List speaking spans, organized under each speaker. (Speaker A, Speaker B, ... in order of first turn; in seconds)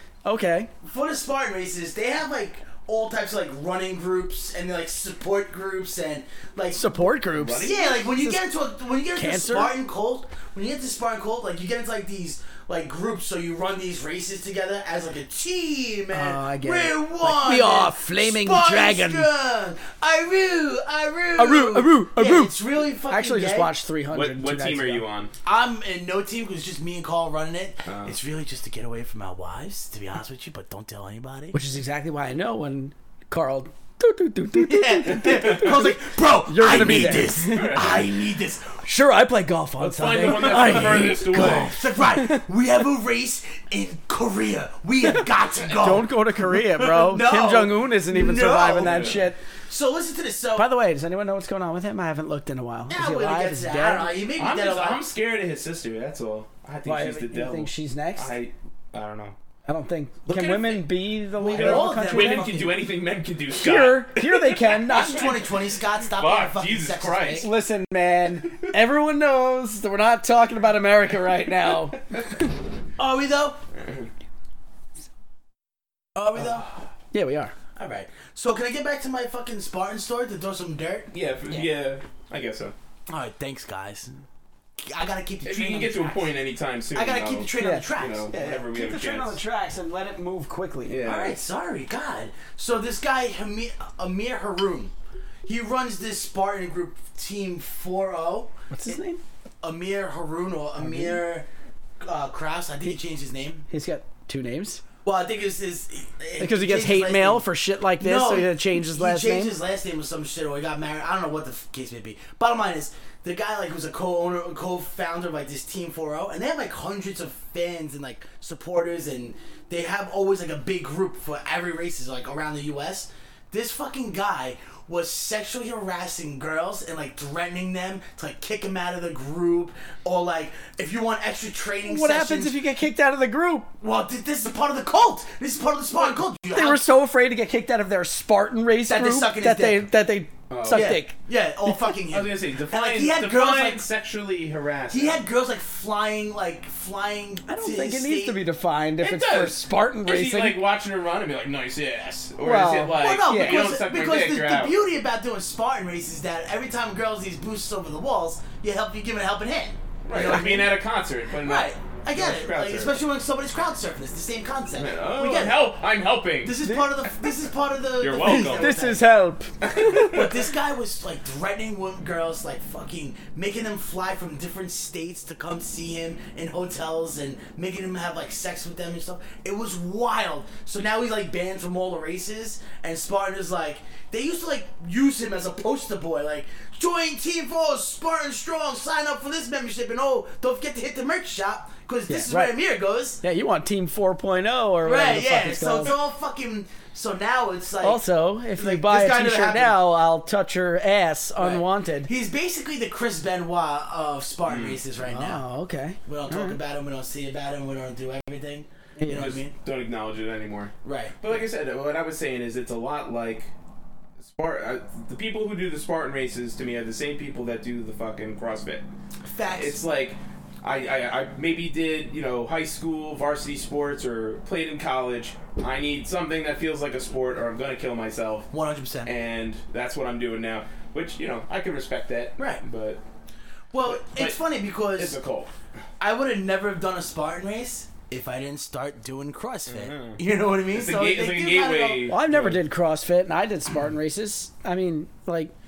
Speaker A: 0.2-0.7, 6.7-8.4, 9.2-9.7, 16.1-19.3, 21.4-22.6, 23.1-25.1, 31.5-37.9, 38.8-42.4, 45.8-49.4, 50.6-54.1, 56.9-58.3, 59.7-62.6, 63.5-65.3, 67.4-72.1, 77.1-77.5, 87.6-91.0, 98.7-99.2, 100.8-101.2, 103.7-104.8, 106.4-109.6, 131.8-133.7, 136.5-141.9, 147.5-150.6, 152.4-153.6, 166.6-166.9, 168.2-170.1, 192.1-192.6, 193.2-195.9, 197.8-202.1, 205.0-206.6, 209.0-209.3, 242.1-245.5
Speaker B: 0.8-6.9, 7.6-23.7, 25.4-31.6, 34.5-38.9, 40.4-50.7, 52.9-55.1, 61.4-62.8, 64.8-67.5, 73.0-73.6, 76.2-76.7, 77.8-81.1, 83.1-84.2, 84.8-86.3, 86.9-88.4, 91.0-94.9, 95.5-99.0, 99.6-101.5, 102.0-103.7, 105.0-132.6, 133.8-136.8, 138.9-139.9, 140.7-143.9, 144.9-148.4, 152.9-160.8, 161.4-165.8, 166.4-169.0, 169.8-193.2, 194.8-198.0, 198.6-199.8, 201.4-205.4, 206.1-209.5, 210.8-211.2, 219.3-219.8, 228.5-229.1, 232.4-232.6, 233.7-235.2, 236.0-242.1
Speaker C: 7.3-8.0, 24.1-25.3, 27.9-28.1, 36.7-38.0, 39.8-41.8, 48.8-49.2, 54.4-59.4, 60.3-60.9, 61.4-67.5, 73.8-74.1, 81.1-82.7, 85.4-89.4, 90.9-91.4, 140.5-141.0, 142.1-145.2, 149.0-154.8, 160.1-163.0, 164.8-166.6, 168.0-168.8, 169.6-170.3, 204.5-204.8, 209.1-213.5, 214.2-218.9, 219.5-228.5, 229.1-233.0, 233.8-234.4, 234.9-235.5, 239.7-242.6